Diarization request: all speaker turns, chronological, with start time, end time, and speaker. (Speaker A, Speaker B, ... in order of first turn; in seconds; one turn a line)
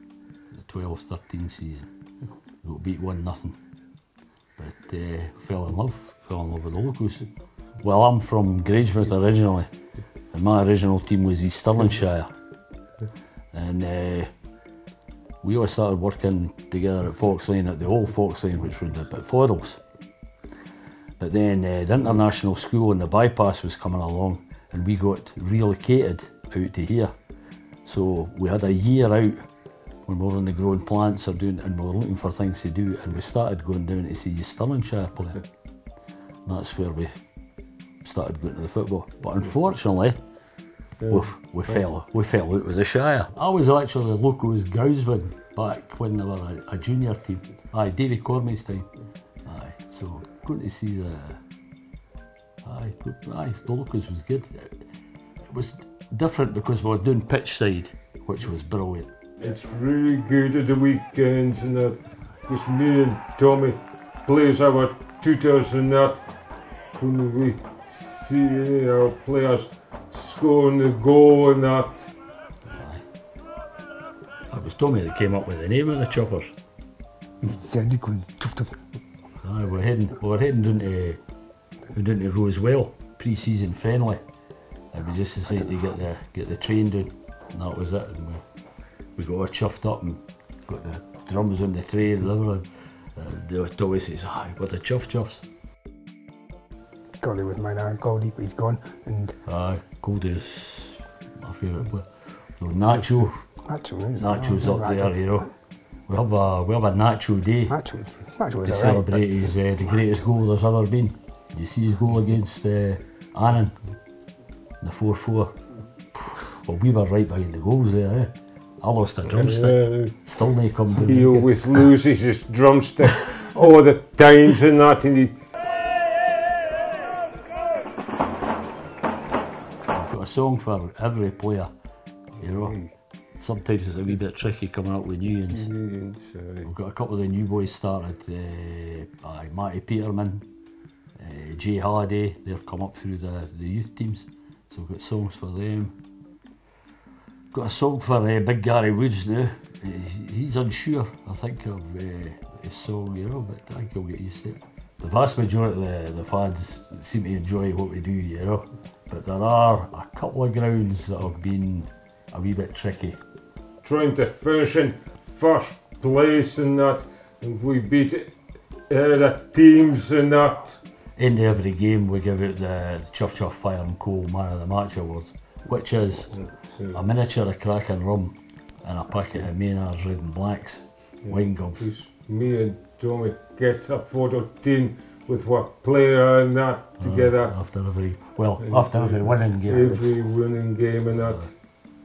Speaker A: 0.5-1.9
Speaker A: 2.5-3.6
Speaker A: 4.6-9.7
Speaker A: 10.3-12.3
Speaker A: 13.5-14.3
Speaker A: 15.4-19.8
Speaker A: 21.2-27.1
Speaker A: 27.8-35.5
Speaker A: 36.4-37.3
Speaker A: 38.0-51.4
Speaker B: 41.0-41.8
Speaker A: 52.6-54.9
Speaker A: 55.5-59.1
Speaker B: 59.4-72.1
Speaker A: 72.6-73.0
Speaker A: 74.5-76.6
Speaker C: 77.4-78.8
Speaker A: 79.4-81.2
Speaker A: 81.9-84.2
Speaker A: 84.9-88.4
Speaker A: 89.1-95.4
Speaker C: 97.2-99.3
Speaker A: 99.4-103.5
Speaker C: 103.6-105.4
Speaker A: 104.2-107.8
Speaker C: 107.7-109.4
Speaker A: 108.6-113.8
Speaker A: 114.8-115.6
Speaker A: 116.1-121.5
Speaker B: 119.2-120.2
Speaker B: 120.8-125.4
Speaker A: 129.9-131.7
Speaker A: 132.4-135.7
Speaker B: 132.6-132.8
Speaker B: 135.5-136.7
Speaker A: 136.6-140.4
Speaker A: 141.2-145.9
Speaker A: 147.5-163.2
Speaker B: 163.8-170.8
Speaker A: 171.2-181.9
Speaker B: 176.3-177.0
Speaker B: 181.2-187.8
Speaker A: 187.0-190.2
Speaker B: 188.6-191.5
Speaker A: 191.1-191.5